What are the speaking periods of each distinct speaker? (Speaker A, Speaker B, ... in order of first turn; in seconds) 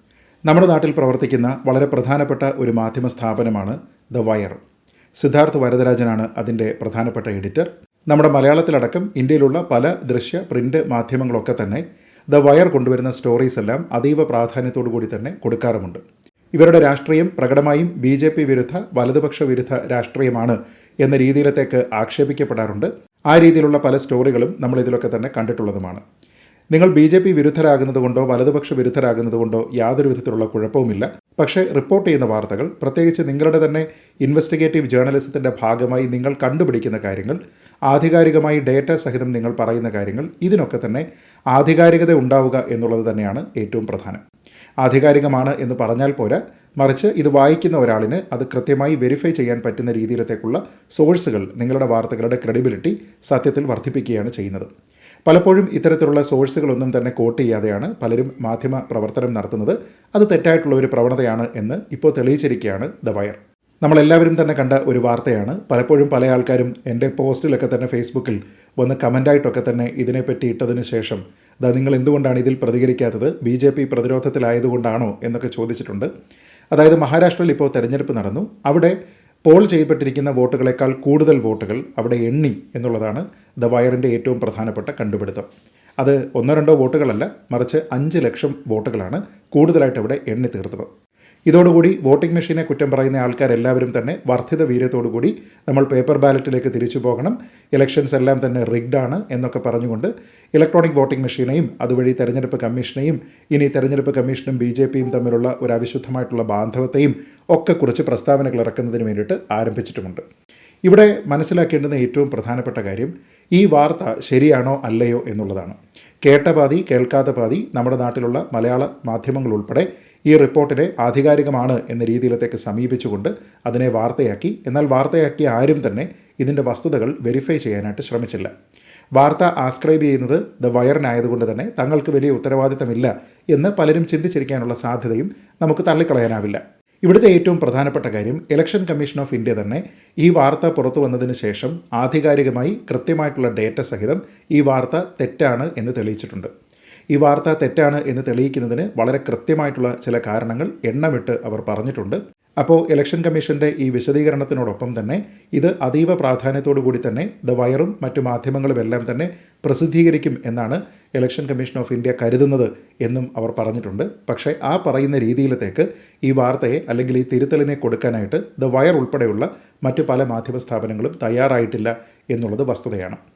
Speaker A: 0.5-4.6, 5.2-16.0, 16.6-26.0, 26.7-44.2, 44.8-54.7, 55.2-76.1, 76.7-78.9, 79.5-85.5, 86.0-90.9, 91.5-110.2, 110.8-128.5, 129.2-146.5, 147.1-173.2